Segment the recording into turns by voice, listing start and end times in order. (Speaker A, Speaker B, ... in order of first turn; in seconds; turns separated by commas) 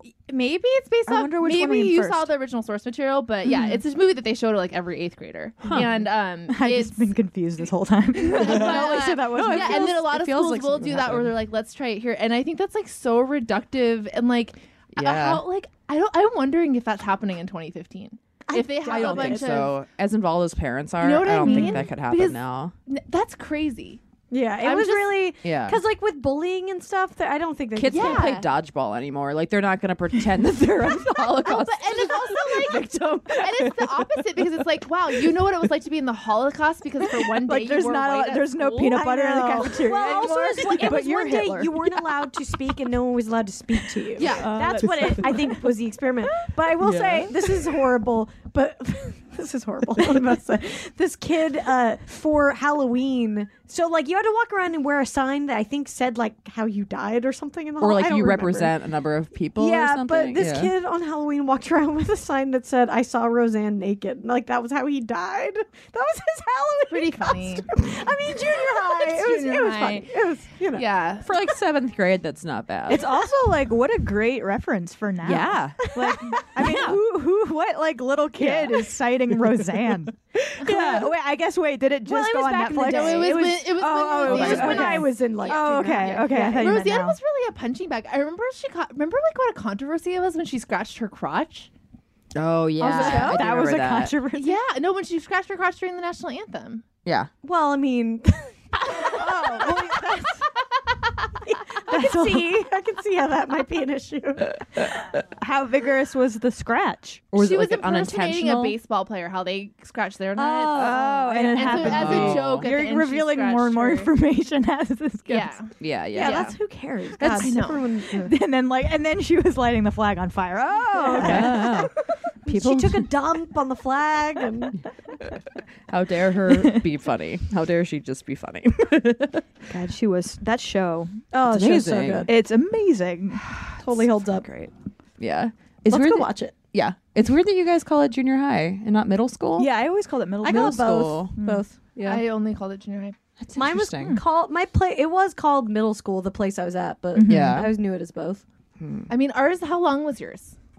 Speaker A: 0.3-7.1, Speaker B: 1.1-2.3, Speaker B: 3.5-3.8, Speaker C: 5.6-5.9, Speaker B: 6.5-10.0, Speaker A: 8.2-19.8, Speaker C: 8.3-11.3, Speaker C: 14.9-15.4, Speaker D: 18.5-19.6, Speaker C: 18.8-22.7, Speaker A: 21.0-24.0, Speaker D: 24.3-28.4, Speaker A: 24.6-25.3, Speaker C: 25.4-25.8, Speaker C: 27.8-34.4, Speaker A: 27.9-28.5, Speaker A: 31.4-39.0, Speaker B: 37.4-42.1, Speaker D: 38.9-58.7, Speaker A: 44.2-44.6, Speaker B: 44.2-45.8, Speaker C: 46.8-47.3, Speaker C: 57.8-60.7, Speaker D: 59.5-70.8, Speaker A: 66.9-67.7, Speaker A: 68.6-70.1, Speaker A: 70.7-71.3, Speaker C: 71.2-73.0, Speaker B: 72.9-87.2, Speaker C: 75.2-75.8, Speaker D: 75.9-77.0, Speaker C: 80.6-81.0, Speaker D: 82.0-86.7, Speaker A: 82.9-91.7, Speaker C: 84.3-84.8, Speaker C: 92.3-94.2, Speaker D: 92.8-93.4, Speaker B: 92.8-94.6, Speaker A: 94.3-96.8, Speaker C: 97.0-97.3, Speaker D: 97.4-99.1, Speaker B: 99.0-100.4, Speaker A: 99.2-99.8, Speaker D: 101.5-104.6, Speaker B: 101.9-102.6, Speaker B: 105.1-107.3, Speaker C: 107.3-108.7, Speaker A: 107.3-114.1, Speaker B: 110.4-115.6, Speaker D: 110.7-111.7, Speaker C: 111.7-112.7, Speaker A: 115.3-116.5, Speaker C: 115.8-116.5, Speaker D: 116.1-118.3, Speaker A: 117.2-117.8, Speaker B: 117.3-121.9, Speaker D: 120.9-121.9, Speaker C: 121.2-121.9, Speaker D: 122.4-124.8, Speaker C: 122.5-123.1, Speaker C: 125.9-129.4, Speaker B: 126.5-126.8, Speaker B: 129.7-131.1, Speaker D: 131.3-132.3, Speaker C: 131.4-132.3, Speaker B: 132.2-133.6, Speaker D: 133.8-134.5, Speaker C: 134.4-139.7, Speaker D: 135.9-136.5, Speaker B: 139.6-141.6, Speaker C: 140.4-141.3, Speaker D: 140.4-142.2, Speaker A: 142.0-143.2, Speaker C: 143.4-144.2, Speaker D: 143.6-148.4, Speaker B: 147.1-147.7, Speaker C: 147.3-147.7, Speaker C: 148.8-149.1, Speaker A: 149.1-150.6